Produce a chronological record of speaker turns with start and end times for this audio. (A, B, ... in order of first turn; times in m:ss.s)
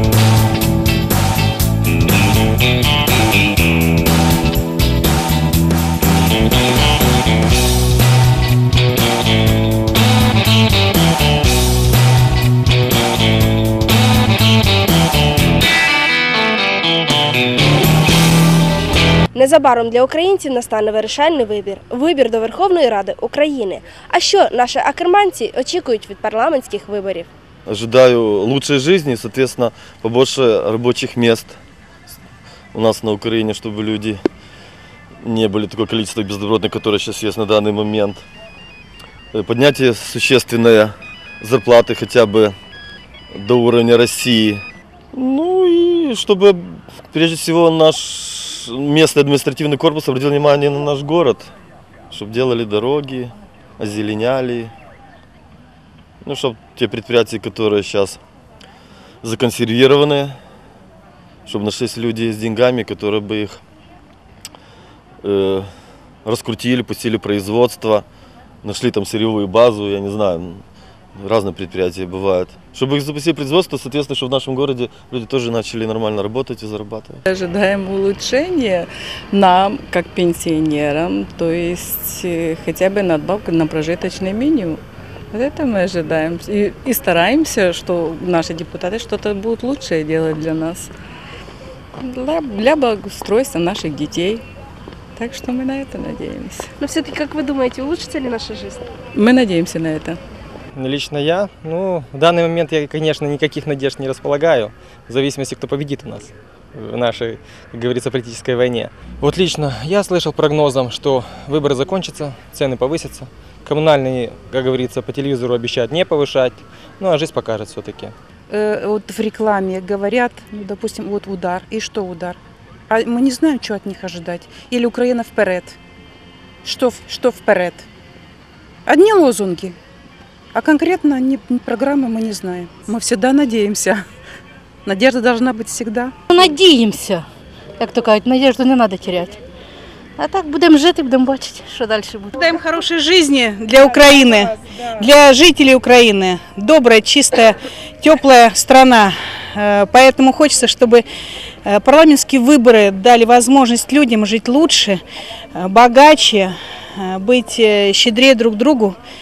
0:19.3-0:27.3 A
0:27.6-0:31.6 B
0:32.7-0:34.2 B
0:35.2-0:38.2 B
0:39.3-0:42.6 B
0:43.3-0:44.6 B
0:45.1-0:51.5 B
0:52.1-0:54.7 B
0:56.2-0:58.2 B
0:59.2-1:00.4 B
1:01.4-1:03.6 B
1:05.2-1:05.7 B
1:06.2-1:08.0 B
1:08.6-1:10.6 B
1:11.2-1:17.2 B
1:17.3-1:24.8 C
1:25.3-1:30.9 C
1:32.0-1:34.4 C
1:35.2-1:36.7 C
1:36.8-1:38.8 A
1:39.1-1:40.2 C
1:40.8-1:58.1 D
1:58.5-2:02.4 E
2:02.9-2:05.8 E
2:06.6-2:07.8 E
2:08.8-2:09.8 E
2:10.5-2:14.0 E
2:14.8-2:16.1 E
2:16.3-2:17.2 F
2:17.8-2:19.3 F
2:20.2-2:22.3 F
2:22.4-2:31.0 G
2:31.6-2:35.0 G
2:35.5-2:39.0 G